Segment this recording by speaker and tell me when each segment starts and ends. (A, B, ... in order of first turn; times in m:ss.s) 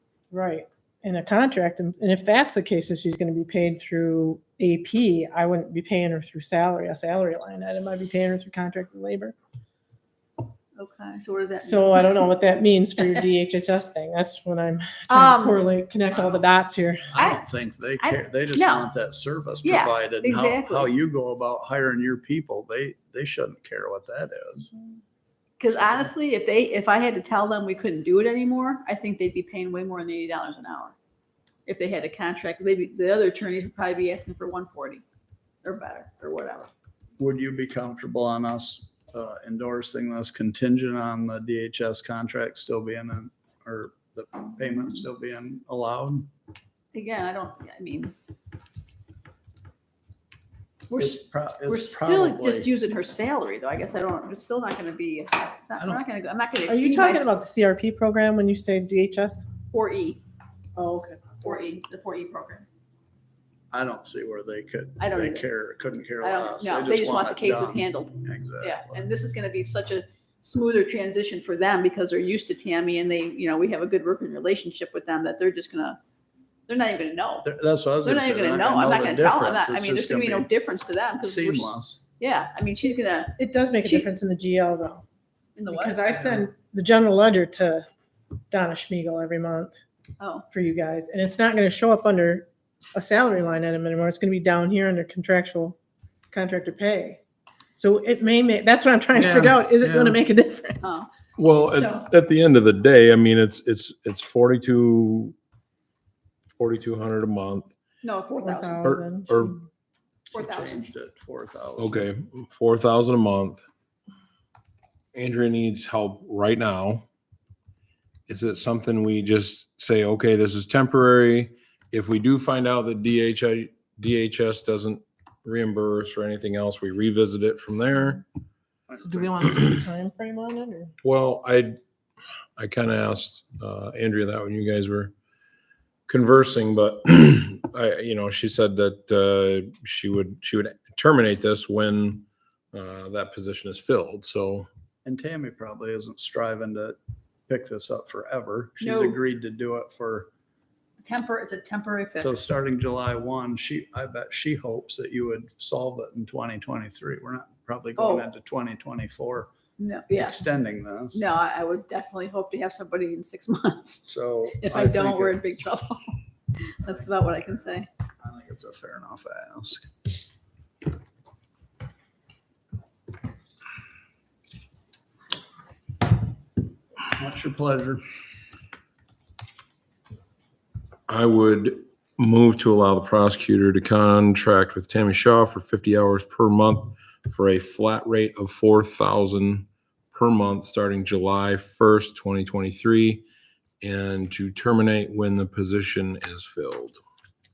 0:00.3-0:09.3 A
0:10.8-0:12.3 B
0:11.6-0:17.1 A
0:15.1-0:15.6 B
0:17.1-0:24.7 C
0:17.2-0:17.4 B
0:18.0-0:18.9 B
0:19.6-0:20.9 B
0:25.6-0:30.9 B
0:31.6-0:35.0 B
0:35.6-0:36.7 B
0:37.2-0:46.3 C
0:46.9-0:48.1 B
0:50.9-0:57.4 B
0:51.0-0:52.7 C
0:56.7-0:59.5 A
0:59.7-1:00.2 B
1:00.8-1:01.3 A
1:01.4-1:02.6 B
1:03.7-1:09.1 C
1:05.0-1:05.5 B
1:06.2-1:16.0 B
1:16.7-1:17.5 B
1:17.4-1:20.5 C
1:18.0-1:24.1 B
1:21.2-1:22.0 C
1:23.4-1:25.0 A
1:25.6-1:26.4 B
1:25.7-1:27.8 A
1:28.5-1:29.8 A
1:30.2-1:30.5 B
1:30.5-1:35.8 A
1:36.3-1:37.2 A
1:37.8-1:41.0 A
1:39.1-1:40.2 C
1:40.8-1:41.1 B
1:41.4-1:45.3 D
1:41.7-1:42.1 A
1:46.6-1:47.7 D
1:48.0-1:49.0 B
1:48.4-1:49.6 A
1:48.8-1:49.6 D
1:50.3-1:50.8 B
1:50.3-1:52.0 C
1:51.8-1:53.6 D
1:55.1-1:57.0 D
1:58.3-2:08.2 D
2:08.9-2:09.6 C
2:09.0-2:10.9 A
2:11.0-2:11.8 D
2:12.6-2:15.1 D
2:16.1-2:24.7 D
2:25.0-2:27.0 C
2:27.5-2:30.3 C
2:28.8-2:29.2 B
2:31.0-2:32.4 B
2:32.2-2:39.5 C
2:38.0-2:38.3 B
2:39.8-2:40.4 B
2:40.1-2:41.2 C
2:41.1-2:46.2 B
2:44.1-2:45.4 C
2:46.7-2:47.9 B
2:48.2-2:49.8 C
2:57.1-2:58.0 C
3:01.1-3:13.2 D
3:13.8-3:17.0 D